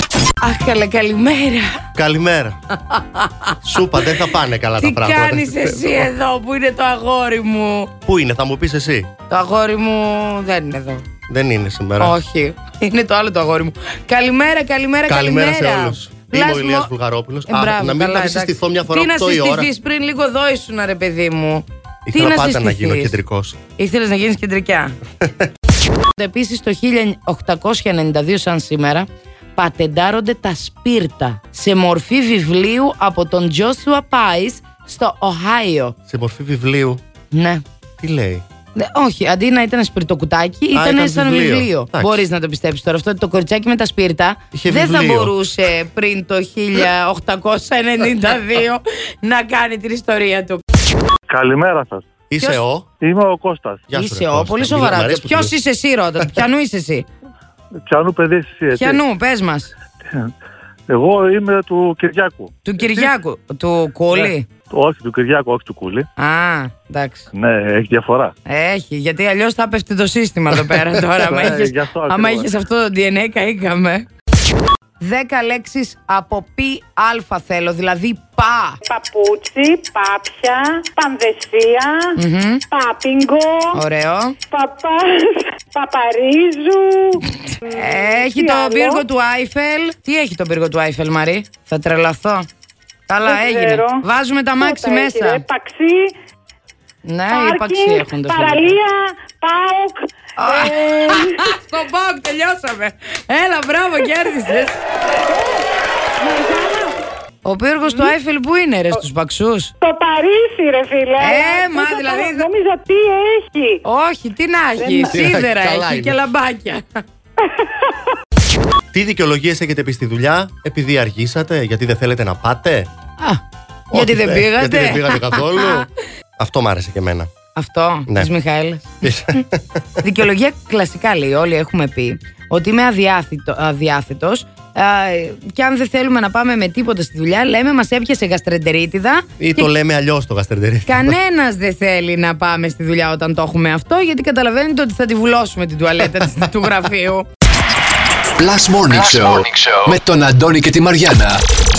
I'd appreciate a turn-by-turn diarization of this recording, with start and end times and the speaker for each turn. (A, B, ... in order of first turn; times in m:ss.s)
0:00.4-0:01.8 A
0:01.9-0:02.6 B
0:02.9-0:03.5 A
0:03.6-0:06.0 B
0:04.8-0:07.9 A
0:08.0-0:09.1 B
0:09.3-0:11.0 A
0:11.3-0:12.2 B
0:12.0-0:16.9 A
0:15.1-0:19.7 B
0:17.5-0:23.2 A
0:22.0-0:23.6 B
0:23.8-0:24.9 A
0:26.1-0:36.0 A
0:36.1-0:37.0 B
0:37.3-0:37.6 A
0:38.0-0:38.4 B
0:38.7-0:50.6 A
0:40.7-0:42.2 B
0:44.5-0:45.3 B
0:51.3-0:52.0 C
0:52.3-0:52.9 B
0:53.0-0:53.8 C
0:53.9-0:55.5 B
0:53.9-0:57.1 A
0:57.8-0:59.0 C
0:58.7-0:59.7 A
1:00.9-1:02.5 C
1:02.6-1:04.5 A
1:04.1-1:06.0 C
1:06.2-1:07.2 A
1:07.3-1:08.3 C
1:08.4-1:14.0 A
1:11.2-1:12.5 C
1:15.0-1:18.8 A
1:18.8-1:22.2 D
1:22.2-1:22.6 A
1:22.7-1:23.8 D
1:23.7-1:24.4 A
1:24.5-1:29.0 D
1:27.5-1:32.5 A
1:33.1-1:35.4 A
1:33.2-1:34.0 D
1:34.6-1:36.2 D
1:37.0-1:38.8 A
1:37.3-1:41.5 D
1:40.4-1:44.8 A
1:45.2-1:47.0 D
1:47.4-1:49.7 A
1:49.8-1:53.8 D
1:51.2-1:52.5 A
1:53.8-1:56.8 A
1:54.8-1:55.2 D
1:55.0-1:56.2 B
1:57.4-1:57.8 D
1:58.9-2:02.9 B
2:03.9-2:07.3 B
2:03.9-2:05.8 A
2:07.5-2:09.1 A
2:09.0-2:09.6 B
2:10.0-2:19.7 A
2:19.4-2:21.1 B
2:20.8-2:27.2 A
2:28.4-2:31.4 E